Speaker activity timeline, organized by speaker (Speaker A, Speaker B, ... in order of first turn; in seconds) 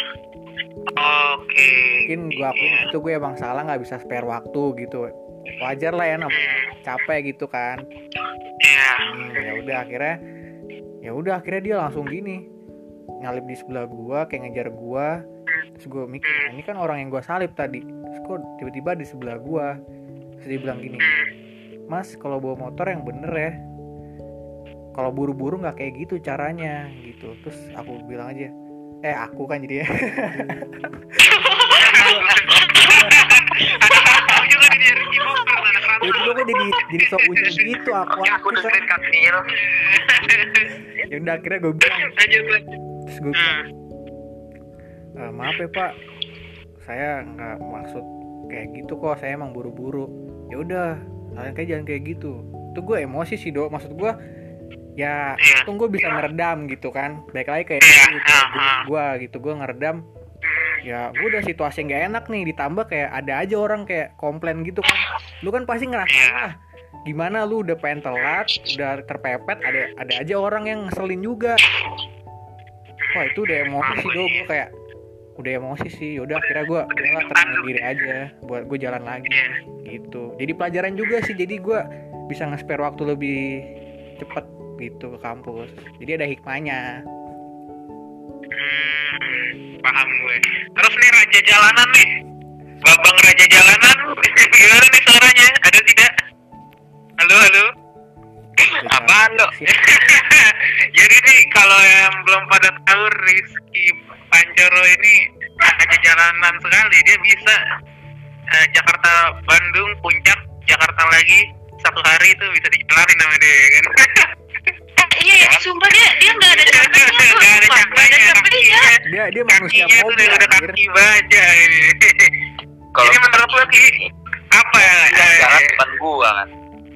Speaker A: 1.0-2.9, 6.3-6.7, 8.6-9.0, 16.2-16.5, 21.0-21.3, 31.3-37.6, 39.5-40.7, 41.9-42.6, 43.4-43.6, 55.4-55.7, 57.8-58.9, 60.4-60.8, 66.1-66.5, 73.0-74.4, 76.9-77.7, 88.6-92.1, 92.8-96.1, 97.2-97.7, 99.7-107.6, 108.5-114.3, 116.5-122.4, 123.0-124.0, 124.5-125.8
Speaker B: 2.1-7.8, 9.1-10.2, 11.0-12.4, 13.2-15.1, 15.8-19.7, 20.4-21.1, 21.9-23.5, 25.0-28.5, 29.0-31.3, 31.8-32.3, 32.9-33.2, 36.0-38.8, 41.1-42.1, 43.1-43.6, 45.2-45.9, 46.8-54.1, 55.0-60.0, 60.8-66.5, 67.1-71.6, 73.1-74.7, 75.4-83.5, 84.2-86.9, 98.8-100.1, 119.1-120.8
Speaker C: 31.4-32.1, 32.9-34.4, 115.0-118.9
Speaker D: 38.2-39.5, 98.6-99.5, 115.4-115.7, 122.9-124.1, 124.8-126.5